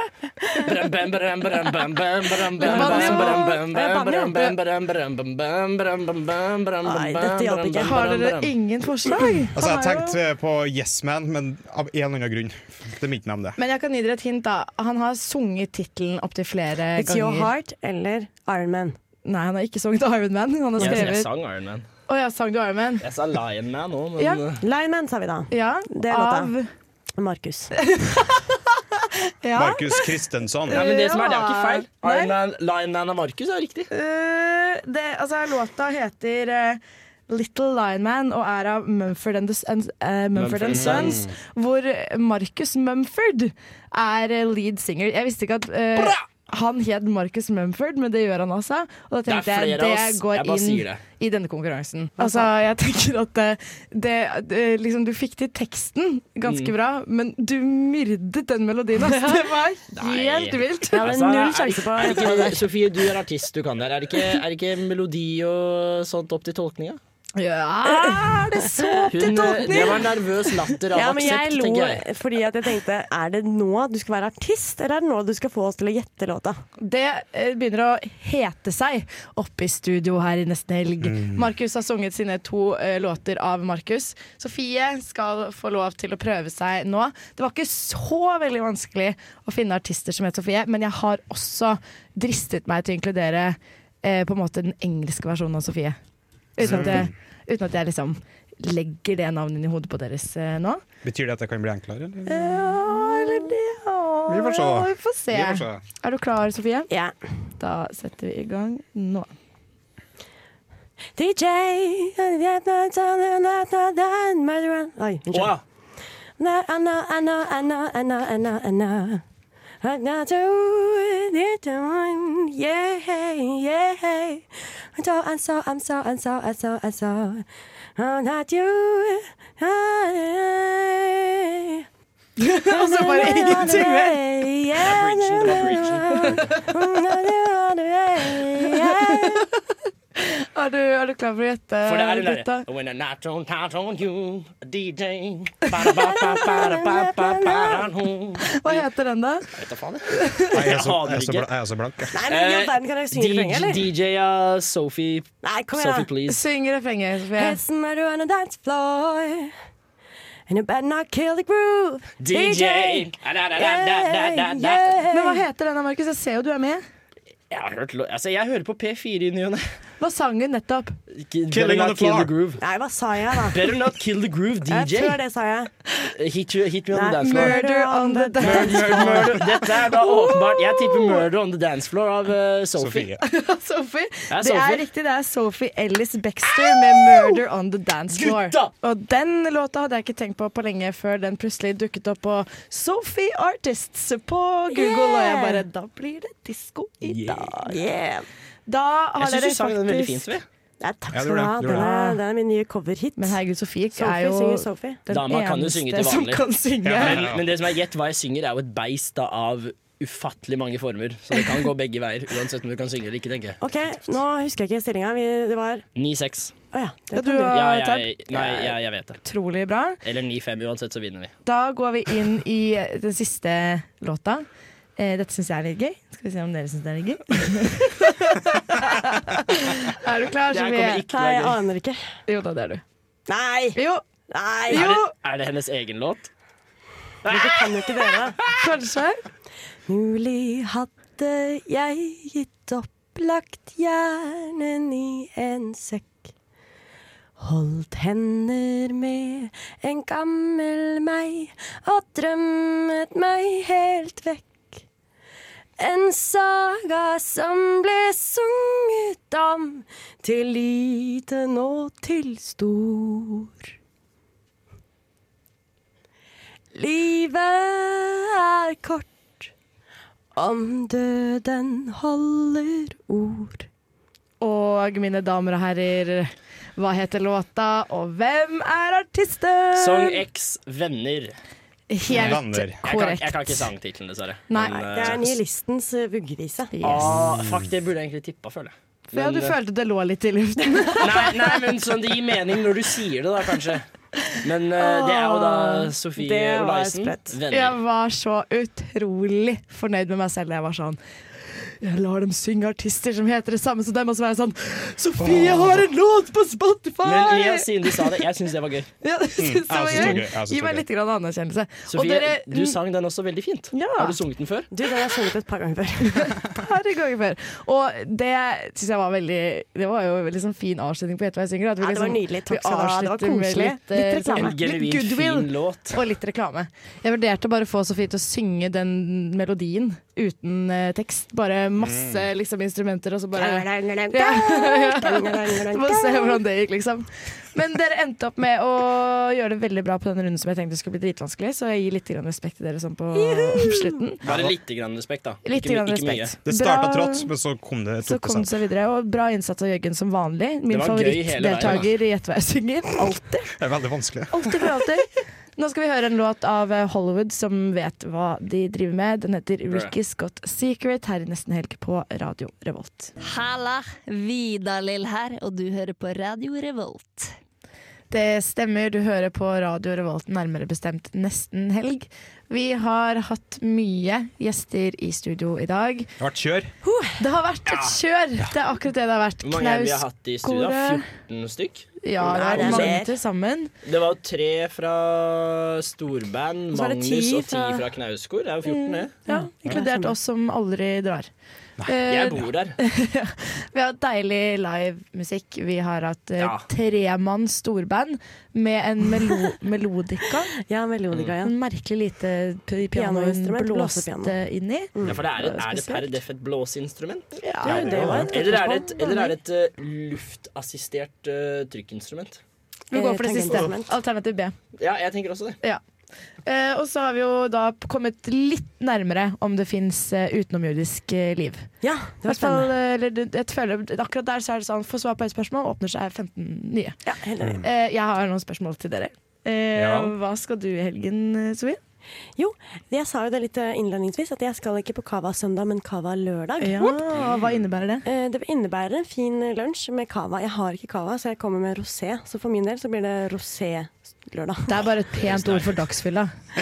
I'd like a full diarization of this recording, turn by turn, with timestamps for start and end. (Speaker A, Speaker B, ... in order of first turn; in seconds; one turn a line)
Speaker A: 0.6-8.5
Speaker B: 2.6-4.5
Speaker C: 2.6-3.6
Speaker B: 6.8-8.0
Speaker C: 7.8-10.2
Speaker D: 9.6-13.6
Speaker C: 13.6-17.5
Speaker B: 16.9-19.0
Speaker C: 19.2-21.3
Speaker B: 20.8-21.1
Speaker A: 20.8-21.8
Speaker C: 22.1-23.0
Speaker A: 23.0-24.6
Speaker B: 24.6-26.5
Speaker C: 25.5-26.7
Speaker B: 27.2-27.7
Speaker C: 27.8-30.1
Speaker D: 29.5-30.9
Speaker C: 30.7-32.3
Speaker A: 30.7-33.9
Speaker C: 33.9-61.1
Speaker A: 40.3-41.2
Speaker D: 40.7-41.3
Speaker A: 49.3-51.0
Speaker B: 52.2-52.5
Speaker A: 56.4-56.7
Speaker B: 59.1-59.4
Speaker A: 59.9-67.0
Speaker B: 60.9-62.7
Speaker C: 67.4-70.1
Speaker B: 67.8-70.0
Speaker A: 69.1-72.0
Speaker B: 70.9-76.6
Speaker C: 76.8-96.0
Speaker D: 81.0-81.4
Speaker C: 96.5-100.8
Speaker D: 96.6-97.1
Speaker D: 101.0-102.7
Speaker C: 102.3-106.9
Speaker B: 102.3-103.5
Speaker D: 104.3-105.8
Speaker B: 106.9-107.1
Speaker C: 107.6-109.3
Speaker B: 111.2-115.6
Speaker A: 115.3-115.6
Speaker B: 116.4-119.2
Speaker B: 119.8-127.5
Speaker B: 128.0-131.8
Speaker C: 132.4-134.2
Speaker B: 132.7-139.4
Speaker A: 134.8-136.4
Speaker C: 136.4-136.7
Speaker C: 140.2-142.7
Speaker A: 141.8-148.8
Speaker B: 146.1-147.9
Speaker C: 148.6-149.5
Speaker A: 149.5-151.5
Speaker C: 150.1-150.5
Speaker D: 150.5-152.2
Speaker B: 152.1-153.8
Speaker A: 152.1-156.4
Speaker B: 155.4-156.1
Speaker C: 156.3-157.6
Speaker B: 157.3-159.5
Speaker B: 160.5-165.4
Speaker A: 162.2-165.0
Speaker C: 165.1-166.8
Speaker A: 167.5-169.8
Speaker C: 170.0-170.9
Speaker A: 171.1-172.6
Speaker D: 171.5-172.3
Speaker B: 172.6-173.6
Speaker A: 173.5-175.2
Speaker B: 174.7-175.7
Speaker A: 176.2-177.6
Speaker B: 176.9-179.4
Speaker C: 177.2-179.4
Speaker A: 178.4-183.1
Speaker C: 179.9-181.2
Speaker D: 182.8-183.2
Speaker C: 183.2-197.8
Speaker A: 184.3-184.8
Speaker A: 186.5-187.3
Speaker A: 188.1-188.7
Speaker B: 194.7-195.6
Speaker B: 197.3-198.3
Speaker C: 198.7-200.3
Speaker A: 199.2-200.4
Speaker B: 200.8-203.4
Speaker D: 201.1-201.9
Speaker C: 201.6-202.2
Speaker C: 203.2-207.2
Speaker B: 203.9-205.0
Speaker A: 205.1-206.4
Speaker D: 206.8-207.4
Speaker A: 206.9-213.6
Speaker B: 213.6-215.8
Speaker A: 215.9-216.5
Speaker B: 216.7-217.6
Speaker C: 217.1-220.0
Speaker A: 217.5-219.2
Speaker A: 220.0-221.3
Speaker C: 221.4-224.4
Speaker C: 225.0-231.0
Speaker A: 230.5-231.6
Speaker B: 231.1-232.0
Speaker C: 232.3-232.8
Speaker B: 233.3-234.9
Speaker C: 233.7-234.0
Speaker C: 234.7-235.1
Speaker A: 234.7-236.3
Speaker A: 237.2-238.5
Speaker B: 237.3-238.4
Speaker C: 238.4-239.2
Speaker B: 239.8-246.3
Speaker B: 247.4-254.8
Speaker B: 255.8-263.5
Speaker B: 266.7-269.5
Speaker B: 270.4-273.7
Speaker C: 274.4-280.2
Speaker A: 279.7-281.4
Speaker C: 281.9-283.7
Speaker D: 282.1-282.8
Speaker A: 282.8-285.4
Speaker C: 284.5-284.9
Speaker B: 284.9-286.7
Speaker C: 286.7-287.2
Speaker A: 286.8-289.6
Speaker C: 289.1-291.4
Speaker A: 291.0-293.9
Speaker A: 294.4-297.8
Speaker B: 294.8-297.3
Speaker C: 297.5-308.2
Speaker D: 305.2-305.8
Speaker A: 307.0-308.9
Speaker C: 309.0-312.7
Speaker D: 309.4-310.8
Speaker A: 309.9-310.2
Speaker A: 311.9-314.7
Speaker C: 313.7-314.1
Speaker B: 314.7-316.4
Speaker C: 316.1-344.2
Speaker B: 321.8-324.6
Speaker A: 324.4-326.0
Speaker D: 331.8-332.2
Speaker B: 333.3-336.4
Speaker B: 343.1-344.0
Speaker A: 344.2-346.4
Speaker D: 344.2-344.5
Speaker C: 345.4-347.3
Speaker D: 346.4-348.5
Speaker C: 348.0-353.5
Speaker A: 350.7-351.9
Speaker D: 353.6-354.6
Speaker C: 354.3-363.1
Speaker E: 363.2-367.3
Speaker C: 368.1-376.1
Speaker D: 376.2-376.7
Speaker B: 376.8-377.1
Speaker C: 377.2-381.1
Speaker A: 377.7-378.0
Speaker A: 379.4-382.9
Speaker C: 382.0-383.7
Speaker B: 382.2-383.1
Speaker A: 383.8-389.1
Speaker B: 386.7-387.8
Speaker C: 388.6-391.3
Speaker B: 389.2-390.1
Speaker C: 391.8-400.5
Speaker A: 392.1-392.8
Speaker A: 396.4-396.6
Speaker B: 400.7-401.5
Speaker C: 401.4-404.9
Speaker B: 402.9-404.4
Speaker B: 404.9-406.1
Speaker A: 405.0-412.4
Speaker C: 407.4-408.2
Speaker B: 407.6-409.3
Speaker D: 407.6-408.3
Speaker C: 412.9-414.5
Speaker B: 412.9-413.9
Speaker A: 414.8-415.6
Speaker C: 416.4-421.7
Speaker B: 421.8-422.7
Speaker C: 422.2-427.0
Speaker B: 427.0-427.6
Speaker C: 427.6-431.8
Speaker D: 429.7-430.1
Speaker B: 432.4-437.0
Speaker C: 436.6-438.0
Speaker B: 438.0-444.8
Speaker C: 444.7-446.3
Speaker A: 445.2-445.6